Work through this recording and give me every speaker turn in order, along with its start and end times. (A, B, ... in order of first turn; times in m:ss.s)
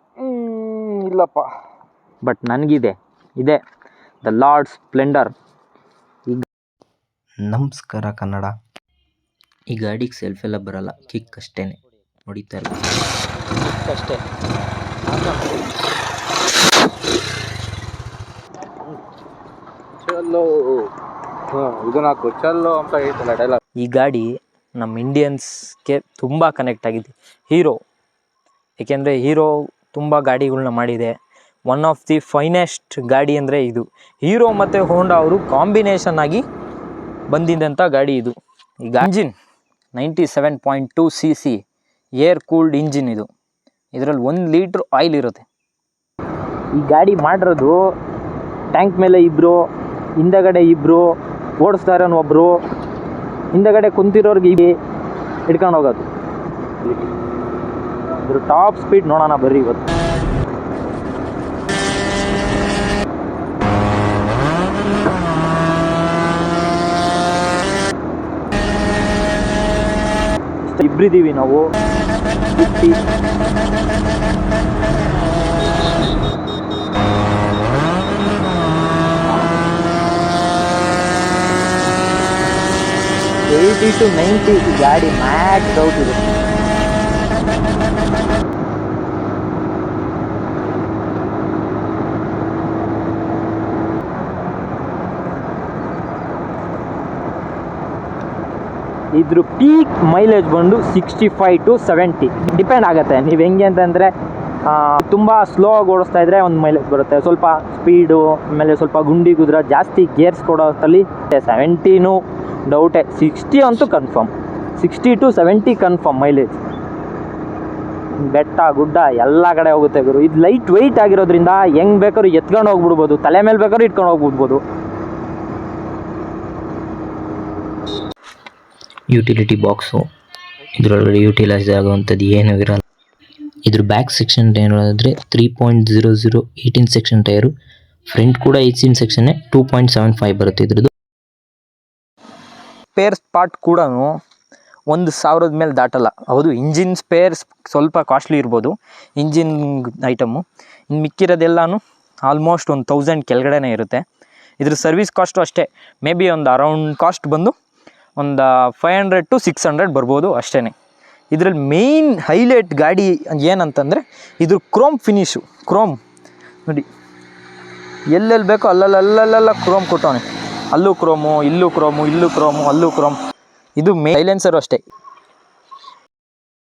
0:00.2-0:01.5 A
0:02.2-0:03.6 B
0:04.2-0:05.3 B
0:07.4-0:08.5 C
0:09.7-0:12.8 C
0:13.5-0:14.2 B
0:15.1-0:15.4 B
0:20.0-0:20.9 A
0:21.5-0:23.6 A
0:23.8-0:27.8 B
0:28.8-0:31.1 B
0:31.7-0:36.4 B
0:37.3-0:39.3 B
0:39.9-0:41.6 B
0:42.2-0:43.3 B
0:43.9-0:45.4 B
0:46.7-0:47.9 B
0:48.7-0:49.7 B
0:50.2-0:52.6 B
0:53.5-0:54.8 B
0:55.5-0:56.0 B
0:58.2-0:59.8 B
1:10.6-1:11.7 B
1:12.5-1:13.0 B
1:23.5-1:26.2 B
1:39.1-1:44.1 B
1:44.6-1:56.6 B
1:58.2-2:04.6 B
2:09.1-2:10.0 C
2:10.7-2:12.8 C
2:13.6-2:17.5 C
2:18.1-2:20.9 C
2:22.9-2:24.1 B
2:24.9-2:34.0 B
2:34.6-2:37.5 B
2:38.2-2:40.7 B
2:41.3-2:46.0 B
2:48.1-2:53.2 B
2:53.8-2:54.8 B